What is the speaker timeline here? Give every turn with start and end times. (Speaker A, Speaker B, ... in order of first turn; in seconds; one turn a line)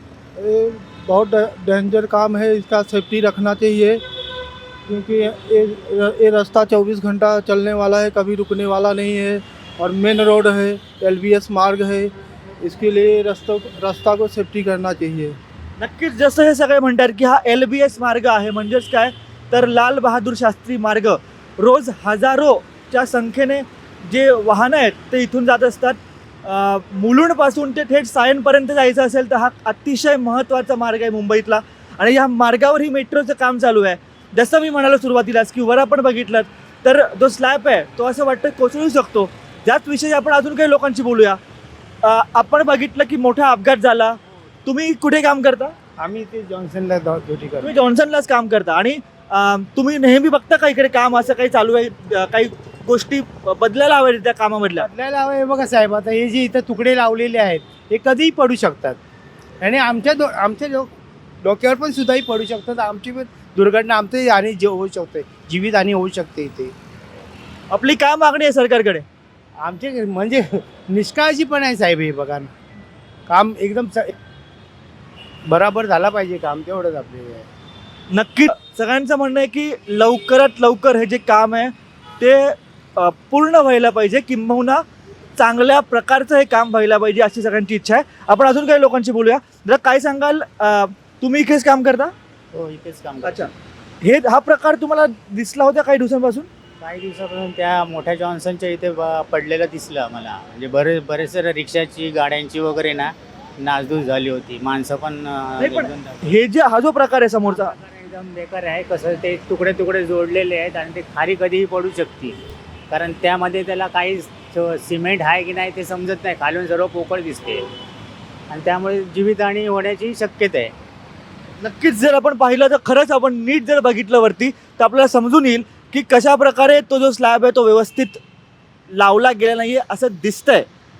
Speaker A: 0.4-4.0
Speaker A: 4.9-15.4
Speaker B: 15.8-41.4
Speaker B: 42.0-45.7
Speaker C: 46.0-47.8
Speaker B: 47.6-54.9
Speaker C: 54.8-59.0
Speaker C: 59.6-60.9
Speaker C: 61.4-66.7
Speaker B: 67.7-69.0
Speaker C: 69.6-72.5
Speaker C: 73.3-74.2
Speaker C: 75.5-77.5
Speaker B: 78.1-84.8
Speaker B: 85.4-92.1
Speaker D: 92.5-93.5
Speaker B: 93.2-93.5
Speaker B: 94.0-96.5
Speaker D: 96.8-106.3
Speaker B: 105.6-107.7
Speaker D: 107.5-112.4
Speaker D: 112.9-117.6
Speaker D: 118.5-120.7
Speaker B: 121.6-128.2
Speaker B: 128.9-130.7